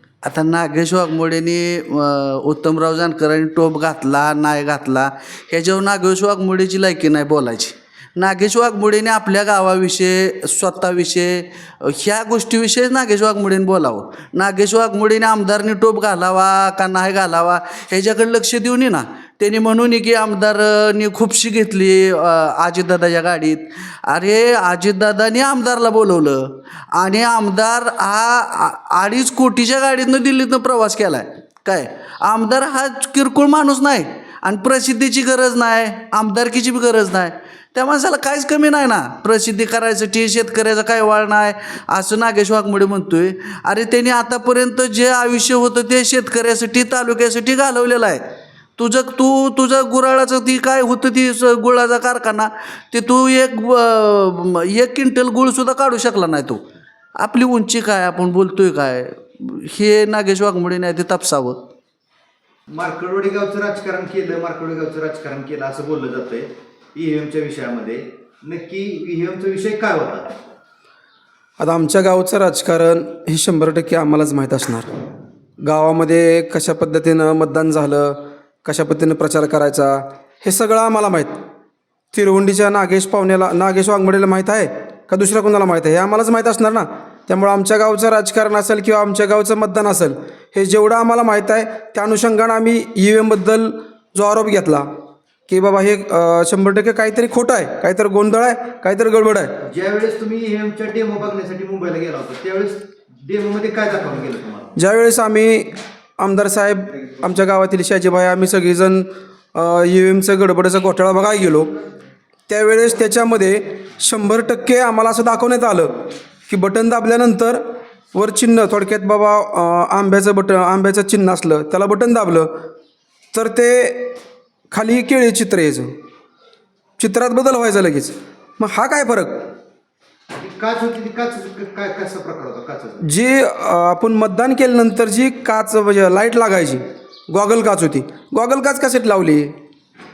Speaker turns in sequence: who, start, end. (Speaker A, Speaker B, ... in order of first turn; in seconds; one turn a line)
Speaker A: 0.2-56.6
Speaker A: 57.2-61.6
Speaker B: 62.7-70.3
Speaker C: 71.6-74.9
Speaker C: 75.6-81.3
Speaker C: 82.1-94.9
Speaker C: 95.5-99.5
Speaker B: 99.6-104.7
Speaker C: 104.8-111.7
Speaker C: 112.5-115.9
Speaker C: 116.5-117.6
Speaker C: 118.1-122.5
Speaker C: 123.3-124.2
Speaker C: 124.7-125.9
Speaker C: 127.0-129.4
Speaker B: 130.3-133.1
Speaker C: 133.0-139.5